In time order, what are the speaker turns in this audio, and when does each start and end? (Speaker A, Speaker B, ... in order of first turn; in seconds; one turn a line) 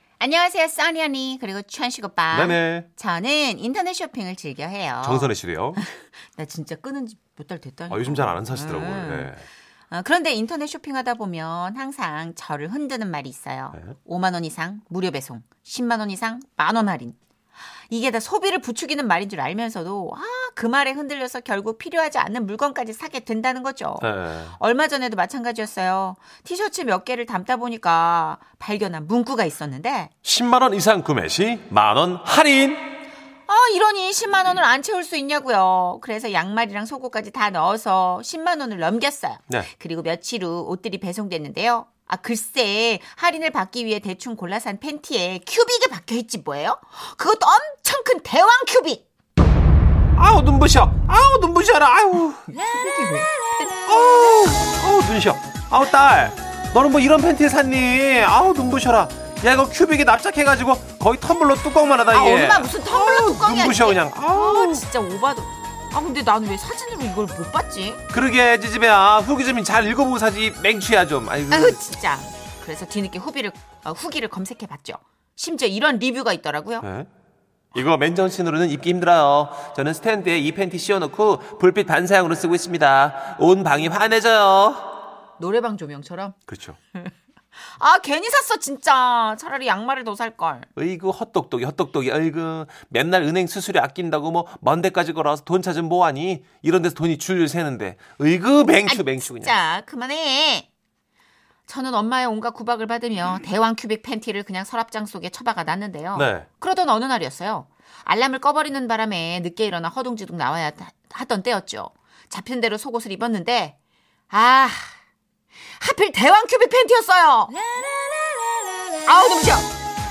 Speaker A: 0.2-9.3
Speaker B: 2.3-2.9
Speaker B: 5.0-5.8
Speaker B: 7.9-9.4
Speaker A: 9.9-17.2
Speaker A: 17.9-30.1
Speaker B: 24.0-24.5
Speaker B: 30.2-32.8
Speaker A: 33.5-49.0
Speaker B: 50.1-52.5
Speaker A: 52.5-54.0
Speaker B: 53.9-64.8
Speaker A: 62.1-68.0
Speaker B: 68.1-71.8
Speaker A: 71.5-76.9
Speaker B: 76.8-77.1
Speaker B: 77.7-84.9
Speaker A: 85.4-86.4
Speaker B: 86.5-86.8
Speaker A: 87.7-90.7
Speaker B: 90.8-99.5
Speaker A: 98.8-100.7
Speaker A: 101.7-113.8
Speaker B: 106.1-106.5
Speaker A: 114.3-114.9
Speaker A: 115.7-117.6
Speaker A: 119.0-119.7